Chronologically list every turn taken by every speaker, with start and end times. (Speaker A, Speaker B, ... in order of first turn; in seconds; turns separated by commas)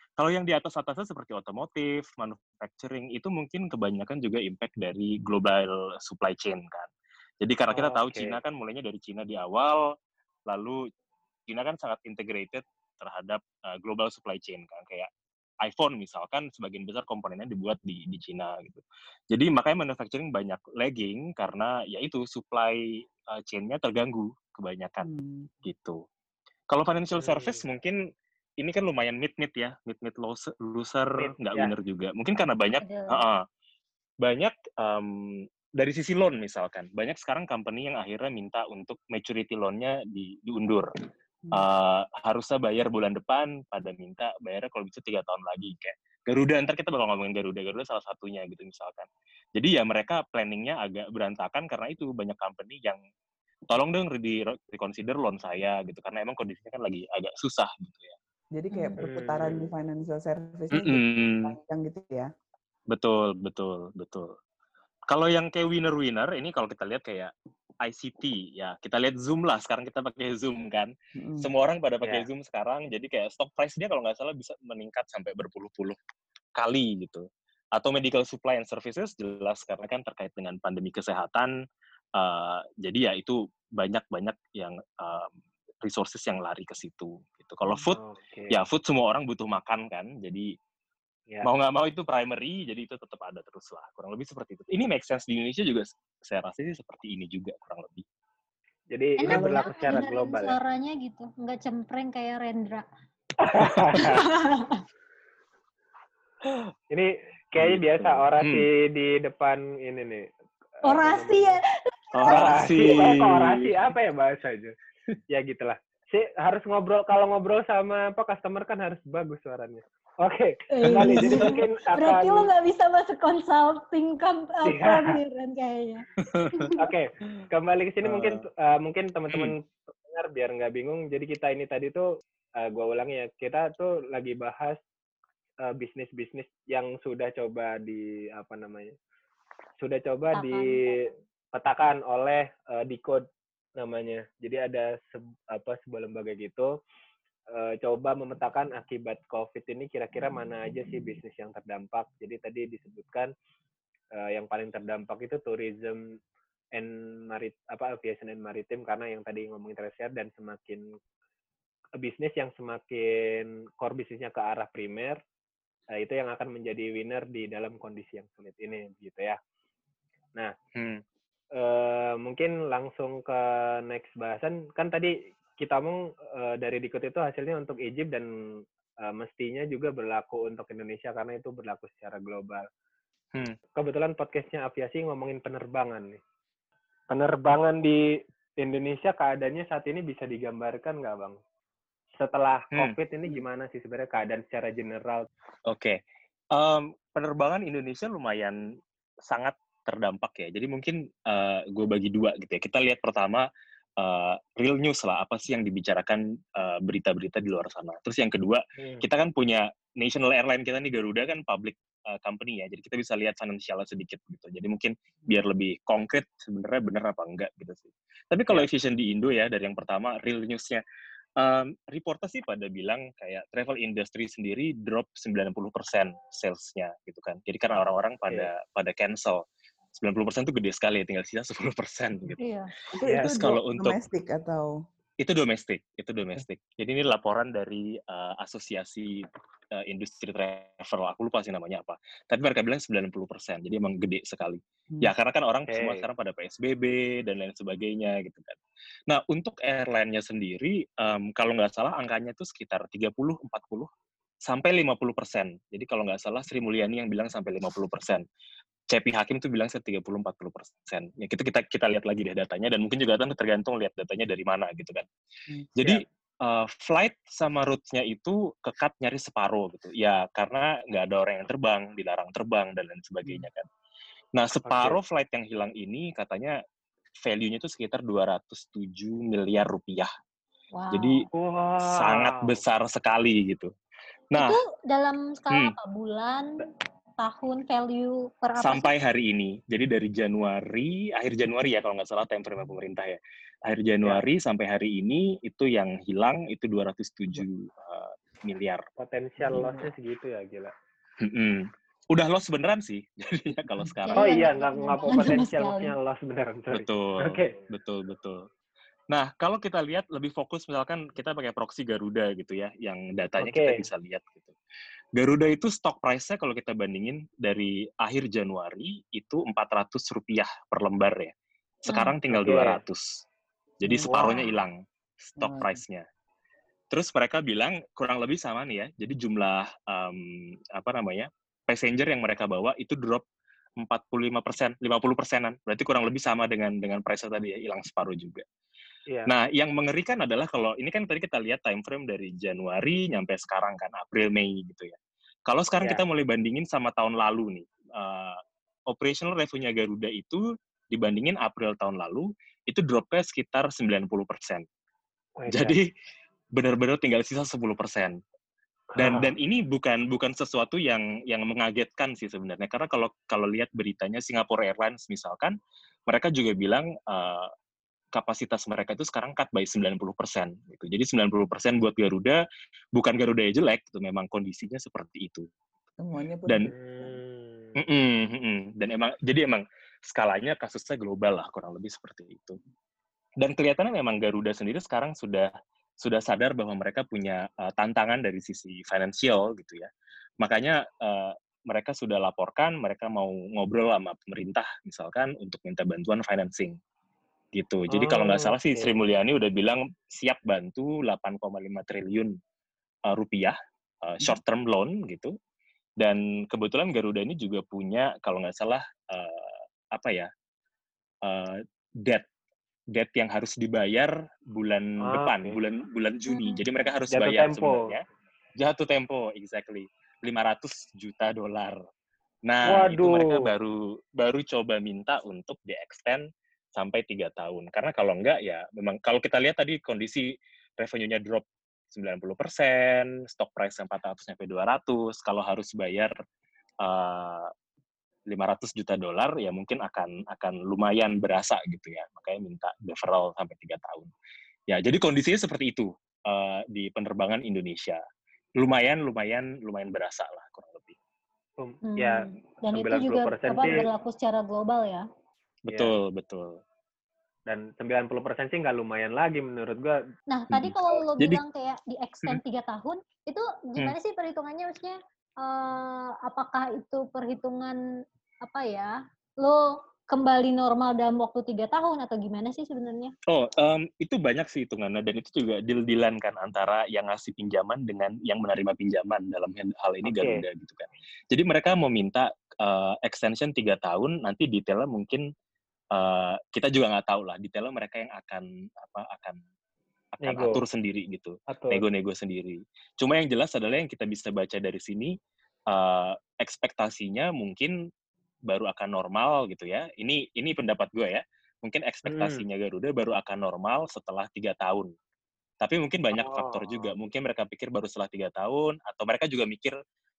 Speaker A: 0.2-9.9, Speaker B: 7.7-8.4, Speaker A: 10.5-10.8, Speaker A: 11.5-15.1, Speaker A: 15.6-25.1, Speaker C: 25.0-25.5, Speaker A: 25.6-26.0, Speaker A: 26.7-33.5, Speaker B: 27.2-27.6, Speaker B: 31.2-31.7, Speaker D: 32.8-33.2, Speaker A: 34.2-40.9, Speaker A: 41.5-53.0, Speaker A: 53.7-58.2, Speaker C: 58.5-62.3, Speaker D: 58.7-59.0, Speaker B: 59.0-59.7, Speaker A: 60.7-61.6, Speaker A: 62.9-64.3, Speaker A: 65.1-76.0, Speaker C: 71.2-71.5, Speaker B: 72.0-72.3, Speaker A: 76.5-81.5, Speaker A: 82.2-85.3, Speaker A: 85.8-88.0, Speaker B: 87.9-88.6, Speaker A: 88.5-90.5, Speaker A: 91.4-98.0, Speaker B: 98.9-100.6, Speaker D: 99.2-102.9, Speaker C: 99.3-99.7, Speaker B: 103.4-104.3, Speaker D: 104.0-104.8, Speaker B: 106.9-110.3, Speaker A: 107.6-108.7, Speaker B: 110.8-111.6, Speaker D: 110.8-112.7, Speaker A: 112.1-113.7, Speaker B: 112.2-114.8, Speaker B: 115.3-122.5, Speaker D: 120.7-126.9, Speaker B: 124.6-125.2, Speaker A: 126.2-126.6, Speaker B: 126.8-134.8, Speaker A: 128.0-128.4, Speaker B: 135.6-138.9, Speaker B: 139.8-143.3, Speaker D: 140.3-141.0, Speaker B: 143.8-146.7, Speaker B: 147.5-153.3, Speaker B: 154.1-156.2, Speaker B: 156.7-161.0, Speaker B: 162.0-165.2, Speaker B: 165.9-169.4, Speaker A: 170.8-171.0, Speaker B: 171.5-182.7, Speaker B: 183.8-186.2, Speaker B: 187.1-191.4, Speaker B: 192.2-195.3, Speaker A: 195.7-196.0, Speaker A: 196.5-203.5, Speaker A: 204.0-220.8, Speaker B: 208.8-209.0, Speaker A: 221.4-232.4, Speaker D: 232.4-232.7, Speaker C: 232.9-234.8, Speaker B: 233.1-233.4, Speaker A: 233.3-234.0, Speaker A: 235.2-253.9, Speaker B: 245.7-246.1, Speaker A: 254.4-258.2, Speaker A: 258.9-265.1, Speaker A: 265.8-273.7, Speaker A: 274.4-276.6, Speaker B: 274.7-275.0, Speaker A: 277.2-280.1, Speaker D: 280.7-281.2, Speaker A: 280.9-281.3, Speaker B: 281.3-282.6, Speaker A: 281.8-283.7, Speaker A: 284.3-284.6, Speaker D: 284.4-286.7, Speaker D: 287.2-288.9, Speaker A: 288.6-298.9, Speaker B: 299.0-300.7, Speaker C: 299.5-299.9, Speaker A: 301.2-304.5, Speaker D: 304.1-305.9, Speaker B: 304.1-307.6, Speaker A: 306.7-308.5, Speaker A: 309.1-314.6, Speaker B: 313.4-313.9, Speaker A: 315.2-321.3, Speaker A: 321.8-323.3, Speaker D: 321.9-322.1, Speaker B: 322.3-322.8, Speaker A: 323.8-326.0, Speaker B: 324.1-324.4, Speaker C: 325.4-325.8, Speaker A: 326.9-333.2, Speaker A: 333.8-338.4, Speaker A: 339.3-354.6, Speaker B: 355.4-355.8, Speaker A: 355.5-355.9, Speaker A: 356.5-358.2, Speaker B: 358.9-359.3, Speaker A: 359.0-367.5, Speaker A: 368.1-372.4, Speaker A: 372.9-375.5, Speaker C: 376.0-377.2, Speaker B: 376.7-377.8, Speaker A: 377.8-382.6, Speaker A: 383.4-385.5, Speaker A: 386.0-389.9, Speaker A: 390.4-396.8, Speaker A: 397.5-402.4, Speaker B: 397.9-398.9, Speaker A: 403.1-405.3, Speaker A: 406.0-410.3, Speaker A: 411.2-412.2, Speaker A: 412.9-418.0, Speaker B: 415.0-415.6, Speaker D: 416.3-416.6, Speaker B: 417.1-418.0, Speaker A: 418.6-421.8, Speaker A: 422.5-430.3, Speaker B: 422.6-423.5, Speaker A: 430.8-436.1, Speaker A: 436.8-437.5, Speaker A: 438.3-444.1, Speaker A: 444.7-448.0, Speaker A: 448.6-450.9, Speaker B: 451.6-453.9, Speaker D: 451.9-455.1, Speaker A: 455.6-456.6, Speaker B: 455.7-455.9, Speaker B: 457.5-460.0, Speaker D: 460.3-467.8, Speaker A: 460.5-461.4, Speaker D: 468.4-473.1, Speaker A: 473.3-485.2, Speaker B: 480.1-480.4, Speaker A: 485.9-489.4, Speaker A: 490.1-495.1, Speaker B: 490.2-490.6, Speaker B: 491.5-491.8, Speaker A: 495.7-497.8, Speaker A: 498.5-504.9, Speaker B: 502.1-502.4, Speaker A: 505.6-509.8, Speaker B: 506.1-506.9